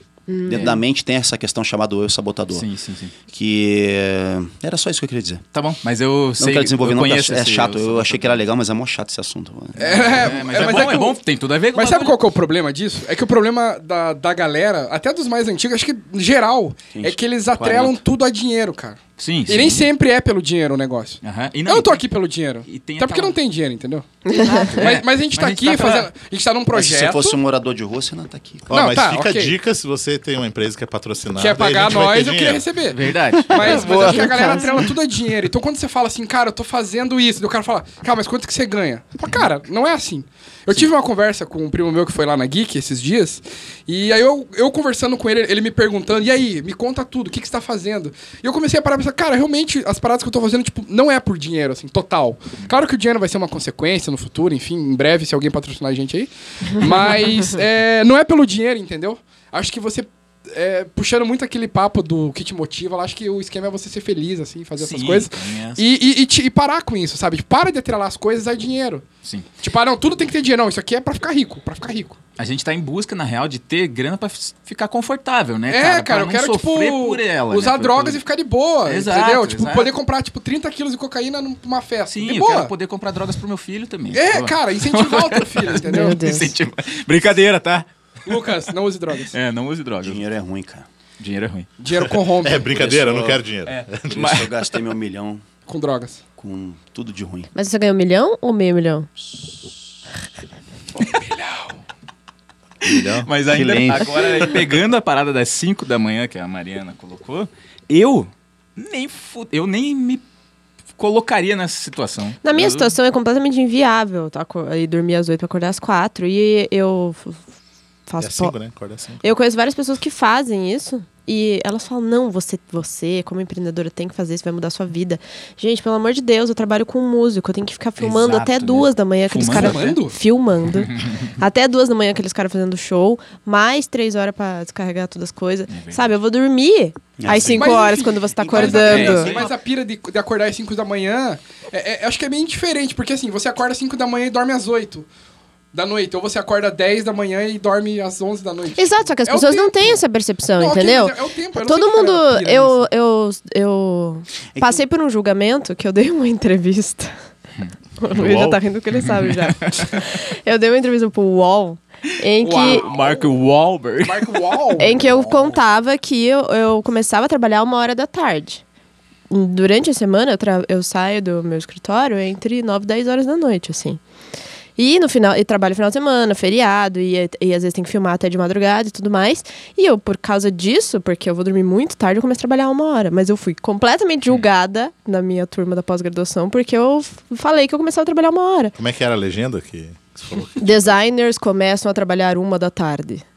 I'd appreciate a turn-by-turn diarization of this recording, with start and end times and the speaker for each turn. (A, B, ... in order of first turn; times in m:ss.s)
0:00.3-0:00.8 A
0:00.4-0:02.7 B
0:02.5-0:03.1 C
0:03.3-0:05.4 B
0:05.5-0:08.4 C
0:06.4-0:10.4 B
0:09.8-0:11.2 D
0:09.8-0:12.2 C
0:11.7-0:27.4 D
0:16.9-0:18.0 B
0:19.2-0:19.8 C
0:21.2-0:22.0 C
0:22.6-0:23.4 C
0:24.3-0:24.7 A
0:24.5-0:26.1 C
0:26.7-0:28.8 B
0:28.7-0:32.7 E
0:28.7-0:29.6 D
0:31.4-1:09.0 D
0:32.9-0:34.7 C
0:34.1-0:34.7 A
1:04.8-1:05.8 C
1:09.6-1:12.2 D
1:12.4-1:18.2 C
1:15.7-1:22.7 D
1:18.9-1:19.9 C
1:22.1-1:28.3 C
1:24.1-1:26.2 D
1:25.8-1:26.5 A
1:28.2-1:29.4 D
1:29.3-1:30.2 C
1:30.0-1:30.9 B
1:31.2-1:31.7 C
1:31.8-1:32.7 D
1:32.0-1:34.5 E
1:32.6-1:33.5 B
1:33.7-1:34.5 C
1:34.1-1:35.4 B
1:35.7-1:36.2 D
1:36.4-1:37.5 B
1:37.6-1:39.1 A
1:39.3-1:39.7 B
1:41.0-1:41.3 C
1:42.8-1:43.3 E
1:42.8-1:50.2 C
1:43.5-1:44.5 B
1:51.0-1:52.9 C
1:52.4-1:57.4 A
1:58.1-1:58.6 A
1:58.2-1:59.3 E
1:59.2-2:19.3 A
2:08.0-2:10.0 C
2:09.4-2:10.2 D
2:10.8-2:11.3 C
2:15.7-2:16.1 C
2:17.3-2:17.7 E
2:17.5-2:25.1 D
2:18.5-2:19.5 C
2:25.7-2:30.0 D
2:28.8-2:37.1 A
2:30.5-2:32.9 D
2:38.0-2:42.9 A
2:38.2-2:40.0 C
2:38.2-2:38.5 E
2:42.4-2:43.2 D
2:42.5-2:44.6 C
2:44.0-2:45.3 D
2:44.8-2:48.6 A
2:49.3-2:54.0 A
2:54.8-3:08.7 A
3:08.8-3:11.0 E
3:10.6-3:13.2 A